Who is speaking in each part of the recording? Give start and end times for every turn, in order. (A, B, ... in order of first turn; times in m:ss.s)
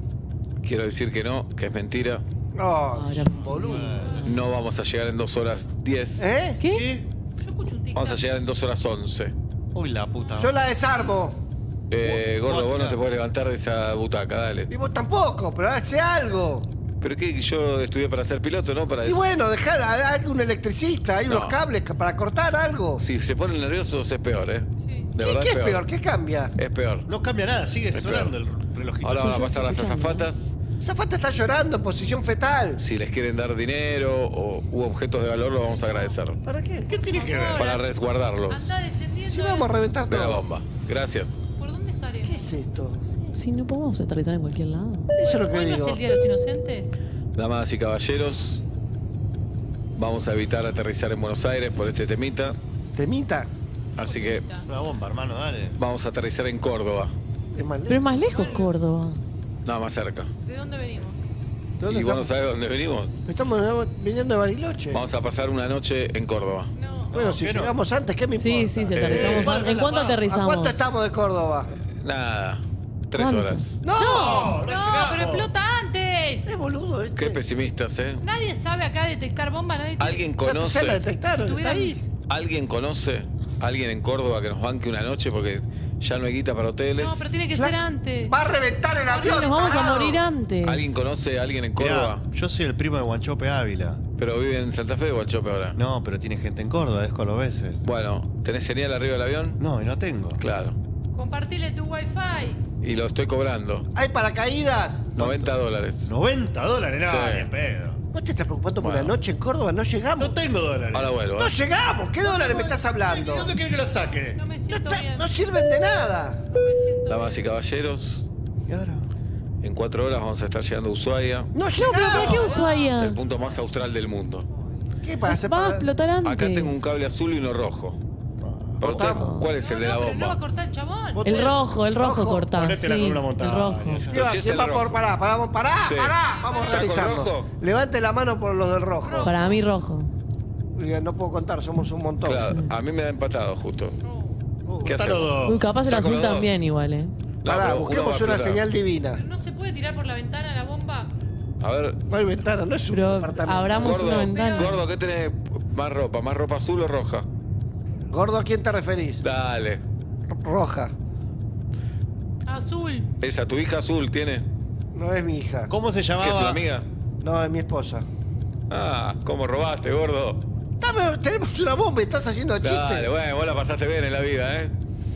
0:00.6-0:02.2 A
0:02.5-0:04.2 B
0:02.9-0:04.2 C
0:03.5-0:04.3 D
0:04.2-0:06.3 A
0:06.2-0:06.6 B
0:06.6-0:06.9 C
0:06.6-0:07.1 D
0:07.4-0:08.2 E
0:08.0-0:09.3 A
0:09.7-0:10.6 D
0:10.4-0:11.4 B
0:11.9-0:14.7 A
0:12.0-0:13.0 D
0:14.7-0:16.7 B
0:17.0-0:19.2 A
0:19.0-0:23.0 B
0:21.3-0:21.6 A
0:23.0-0:25.8 A
0:24.8-0:25.1 E
0:25.2-0:26.5 B
0:26.6-0:27.1 A
0:27.1-0:29.4 D
0:27.9-0:28.4 A
0:29.0-0:30.6 A
0:29.2-0:30.3 C
0:30.8-0:32.8 B
0:32.8-0:36.4 A
0:35.6-0:36.2 E
0:36.4-0:37.1 B
0:36.9-0:37.8 E
0:36.9-0:37.6 D
0:37.6-0:38.7 A
0:38.5-0:39.7 E
0:39.3-0:40.4 B
0:40.1-0:41.4 A
0:41.6-0:43.4 E
0:42.2-0:43.0 B
0:43.3-0:45.1 C
0:45.1-0:46.0 B
0:45.2-0:47.0 E
0:47.4-0:48.6 A
0:50.0-0:52.6 A
0:52.9-0:53.5 B
0:54.0-0:54.4 A
0:54.0-0:54.7 E
0:54.7-0:55.8 D
0:55.8-0:57.1 A
0:57.5-0:58.5 B
0:57.9-0:59.2 C
0:58.2-0:58.8 E
0:59.6-1:00.3 A
1:00.4-1:01.2 E
1:01.8-1:02.3 B
1:01.9-1:03.2 A
1:03.3-1:05.0 B
1:04.9-1:06.7 A
1:06.7-1:07.2 E
1:07.1-1:07.8 D
1:07.1-1:09.7 B
1:08.4-1:10.9 C
1:08.9-1:09.5 A
1:09.1-1:10.2 D
1:10.2-1:11.7 B
1:11.8-1:13.6 A
1:13.2-1:13.7 C
1:13.8-1:14.6 B
1:13.9-1:16.5 E
1:14.2-1:15.5 D
1:16.5-1:17.4 B
1:17.2-1:18.2 A
1:18.2-1:20.3 E
1:20.0-1:21.1 A
1:20.4-1:22.0 B
1:21.2-1:22.0 E
1:22.3-1:27.2 A
1:27.0-1:28.3 E
1:27.5-1:30.2 B
1:29.1-1:30.1 E
1:29.2-1:31.0 C
1:30.6-1:32.2 A
1:31.8-1:34.0 D
1:34.2-1:35.8 A
1:35.8-1:37.8 D
1:37.8-1:39.6 A
1:39.6-1:40.4 D
1:40.4-1:40.8 A
1:41.1-1:42.6 E
1:42.8-1:43.9 A
1:43.9-1:45.2 B
1:45.2-1:46.1 A
1:45.2-1:45.5 D
1:46.0-1:48.0 D
1:47.0-1:47.5 A
1:48.1-1:50.4 B
1:48.8-1:49.2 A
1:50.2-1:51.1 D
1:50.9-1:51.5 A
1:51.4-1:53.5 B
1:52.2-1:54.4 D
1:54.3-1:55.3 E
1:54.7-1:56.4 B
1:56.5-1:57.5 E
1:57.1-1:58.3 A
1:58.7-1:59.1 D
1:59.6-2:01.5 A
2:01.5-2:02.6 B
2:01.7-2:03.2 C
2:02.1-2:03.0 E
2:03.0-2:04.5 A
2:05.0-2:05.9 B
2:05.2-2:07.0 C
2:06.2-2:08.0 A
2:08.4-2:09.2 D
2:08.8-2:10.4 A
2:08.8-2:09.3 B
2:09.1-2:09.5 C
2:09.6-2:11.5 E
2:11.2-2:12.5 B
2:11.2-2:14.1 C
2:12.6-2:14.3 D
2:14.1-2:19.6 B
2:14.1-2:15.0 A
2:15.8-2:17.5 A
2:16.2-2:17.0 E
2:19.0-2:19.4 E
2:19.2-2:20.1 C
2:20.8-2:22.5 B
2:22.2-2:24.0 A
2:22.4-2:22.7 C
2:24.0-2:24.4 E
2:24.6-2:25.3 B
2:24.8-2:25.6 D
2:24.8-2:26.5 A
2:25.4-2:27.1 C
2:27.4-2:28.6 A
2:27.5-2:29.2 B
2:29.1-2:31.1 E
2:31.6-2:32.0 A
2:32.1-2:34.1 B
2:32.9-2:34.8 C
2:33.8-2:37.3 A
2:34.2-2:34.8 E
2:38.1-2:39.2 B
2:39.2-2:39.8 A
2:40.3-2:40.9 B
2:42.4-2:43.1 E
2:43.2-2:44.5 A
2:44.9-2:45.7 B
2:45.7-2:46.6 D
2:46.2-2:46.9 A
2:47.2-2:48.1 B
2:48.7-2:50.4 A
2:50.8-2:53.1 B
2:52.6-2:54.7 A